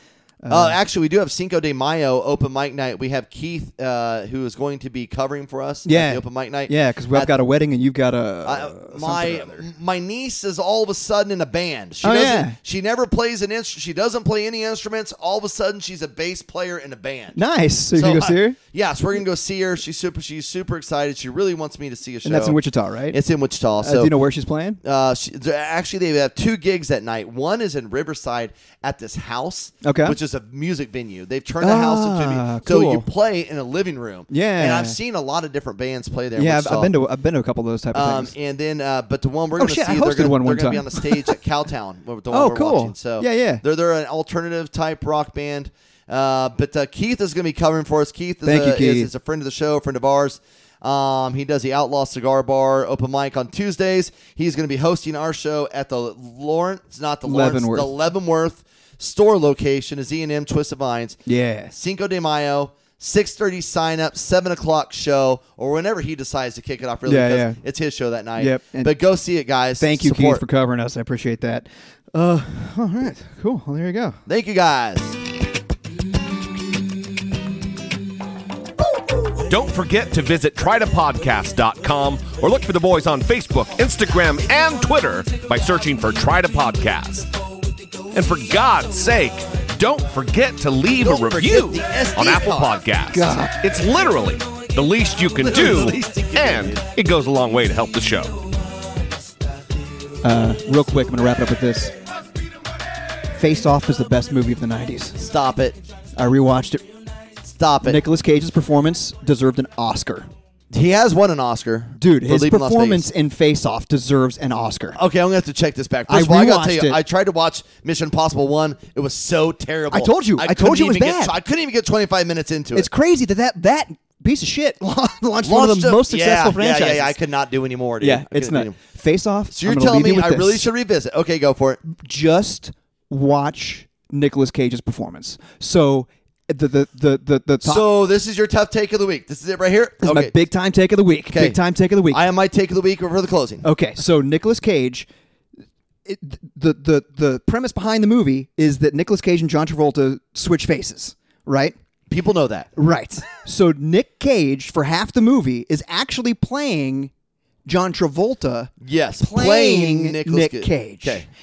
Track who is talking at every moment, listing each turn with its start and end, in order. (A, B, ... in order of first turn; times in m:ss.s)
0:00.4-0:00.8 A
0:00.5-0:07.3 B
0:05.8-0:09.6 A
0:08.4-0:17.4 B
0:12.0-0:12.6 A
0:17.3-0:18.6 A
0:17.9-0:22.6 B
0:22.2-0:23.2 A
0:23.1-0:24.1 B
0:23.8-0:24.8 A
0:24.8-0:36.9 B
0:29.8-0:30.2 A
0:31.6-0:33.1 A
0:34.3-0:35.0 A
0:36.4-0:38.3 A
0:37.9-1:01.2 B
0:39.6-0:41.3 A
0:42.3-0:43.6 A
0:48.4-0:49.1 A
0:57.2-0:57.9 A
1:01.3-1:01.7 A
1:01.7-1:10.4 B
1:07.0-1:07.6 A
1:08.4-1:08.9 A
1:09.8-1:14.2 A
1:14.2-1:15.2 B
1:19.5-1:27.3 C
1:28.1-1:38.3 C
1:31.0-1:32.8 B
1:33.1-1:33.5 A
1:35.4-1:36.8 B
1:40.2-1:41.9 A
1:43.3-1:45.2 A
1:45.2-1:45.8 B
1:46.2-1:46.8 A
1:47.4-1:48.0 B
1:47.8-1:50.3 A
1:50.7-1:53.1 B
1:52.0-1:55.0 A
1:54.9-2:02.9 B
1:56.1-1:57.0 A
1:59.9-2:01.3 A
2:02.7-2:07.1 A
2:05.4-2:08.8 B
2:08.0-2:10.7 A
2:09.5-2:11.8 B
2:11.8-2:17.8 A
2:17.6-2:20.4 B
2:20.0-2:22.2 A
2:21.3-2:21.6 B
2:22.1-2:23.6 B
2:23.6-2:25.1 A
2:26.0-2:31.7 A
2:32.1-2:32.7 B
2:32.8-2:37.1 A
2:37.7-2:41.2 A
2:38.8-2:41.2 B